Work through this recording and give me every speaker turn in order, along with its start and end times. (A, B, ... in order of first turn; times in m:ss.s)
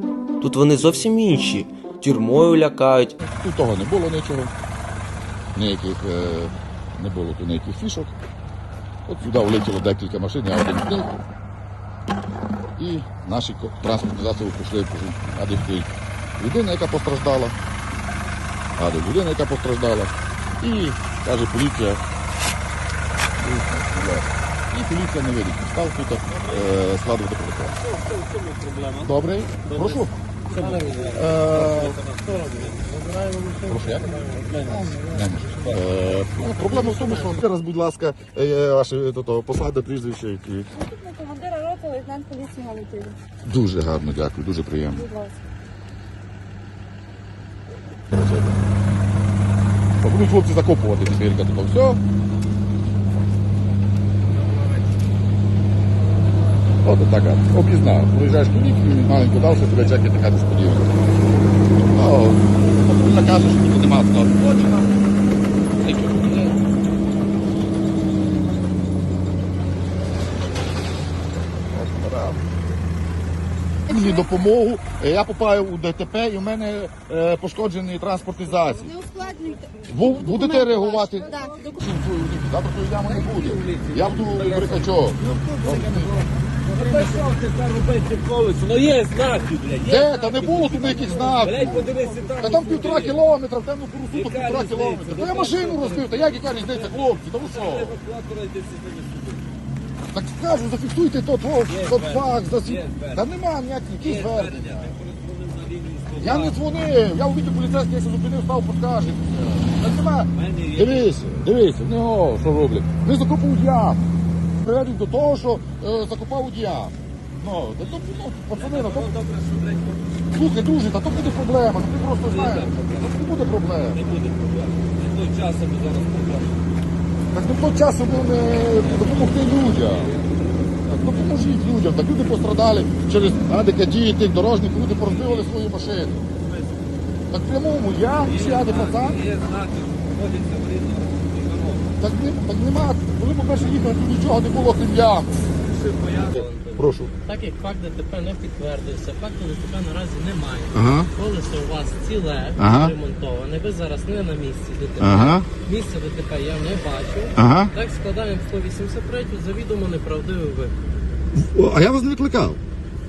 0:00.4-0:03.2 A
0:03.2-0:04.5 B
0:05.5-0:08.1 B
0:09.1-0:11.1 B
0:12.8-0:17.6 B
0:18.8-0:22.0 B
0:23.4-0:27.8 B
0:27.8-0:29.1 C
0:29.0-0:30.1 B
0:29.6-0:32.8 C
0:30.5-0:31.2 D
0:31.1-0:32.0 B
0:32.2-0:34.6 D
0:33.7-0:40.7 B
0:34.3-0:35.0 C
0:36.6-0:37.3 D
0:40.8-0:43.2 E
0:43.4-0:45.1 B
0:45.0-0:45.4 E
0:48.1-0:48.6 B
0:50.0-0:52.0 B
0:56.8-1:01.0 B
1:01.9-1:04.9 B
1:05.8-1:06.6 B
1:11.7-1:12.4 B
1:13.9-1:19.0 B
1:19.0-1:19.7 E
1:19.9-1:26.2 B
1:21.3-1:21.6 E
1:23.2-1:24.8 C
1:26.7-1:33.2 C
1:29.8-1:31.8 B
1:32.4-1:38.0 B
1:34.1-1:39.5 C
1:40.1-1:45.0 B
1:41.7-1:43.3 C
1:44.0-1:46.6 C
1:46.2-1:59.1 B
1:50.3-1:51.1 C
1:58.6-2:00.1 C
2:00.3-2:04.0 B
2:02.2-2:03.1 C
2:03.9-2:06.6 C
2:07.3-2:10.1 B
2:08.7-2:10.3 C
2:10.8-2:16.2 B
2:15.0-2:15.5 C
2:17.3-2:19.2 B
2:18.2-2:21.9 C
2:22.0-2:25.4 B
2:25.7-2:26.8 C
2:26.3-2:27.1 B
2:27.2-2:40.7 D
2:30.7-2:31.1 B
2:32.6-2:32.9 B
2:35.0-2:35.5 B
2:37.4-2:37.7 B
2:41.3-2:42.6 B